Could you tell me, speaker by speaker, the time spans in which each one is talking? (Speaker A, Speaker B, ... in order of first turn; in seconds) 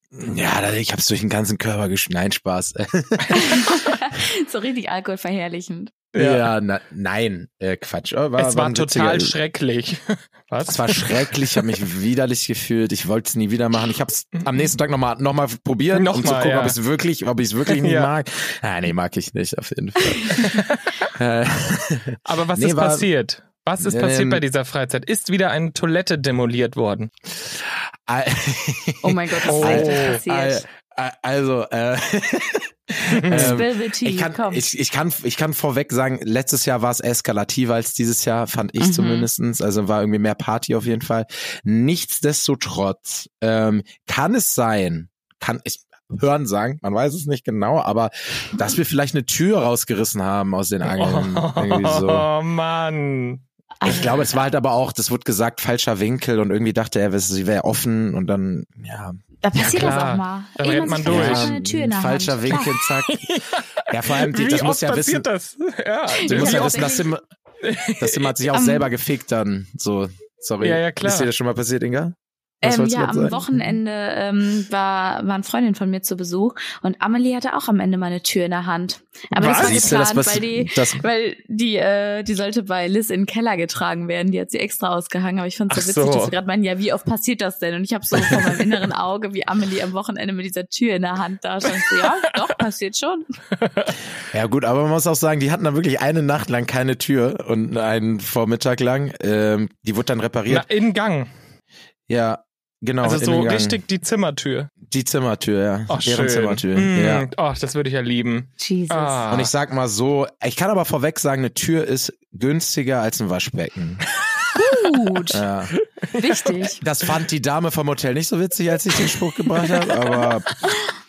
Speaker A: 0.1-3.9, 6.2-9.4, 10.6-23.1, 23.8-24.4, 27.3-52.3, 53.8-59.2, 59.7-60.1, 61.0-65.3, 66.2-67.2, 68.0-73.7, 79.5-81.0, 94.3-100.7, 102.1-103.8, 104.8-107.3, 109.3-114.0, 115.3-115.7, 116.8-120.7
Speaker B: 3.3-5.9, 29.0-30.6, 33.3-34.7, 38.8-39.3, 53.8-54.1, 59.4-62.7, 66.1-67.1, 68.5-68.9, 72.6-93.3, 108.6-109.2, 114.5-115.4, 116.2-116.8
Speaker C: 6.1-6.5, 8.4-11.7, 15.9-16.8, 17.7-18.1, 20.3-21.1, 22.2-27.1, 29.5-30.2, 33.1-33.6, 50.9-53.4, 59.6-61.6, 62.5-67.0, 67.6-68.3, 70.6-71.3, 79.3-79.9, 85.7-86.3, 88.2-88.6, 91.8-92.0, 93.6-94.0, 100.5-101.3, 103.0-104.7, 105.9-109.5, 116.0-116.7, 119.1-120.4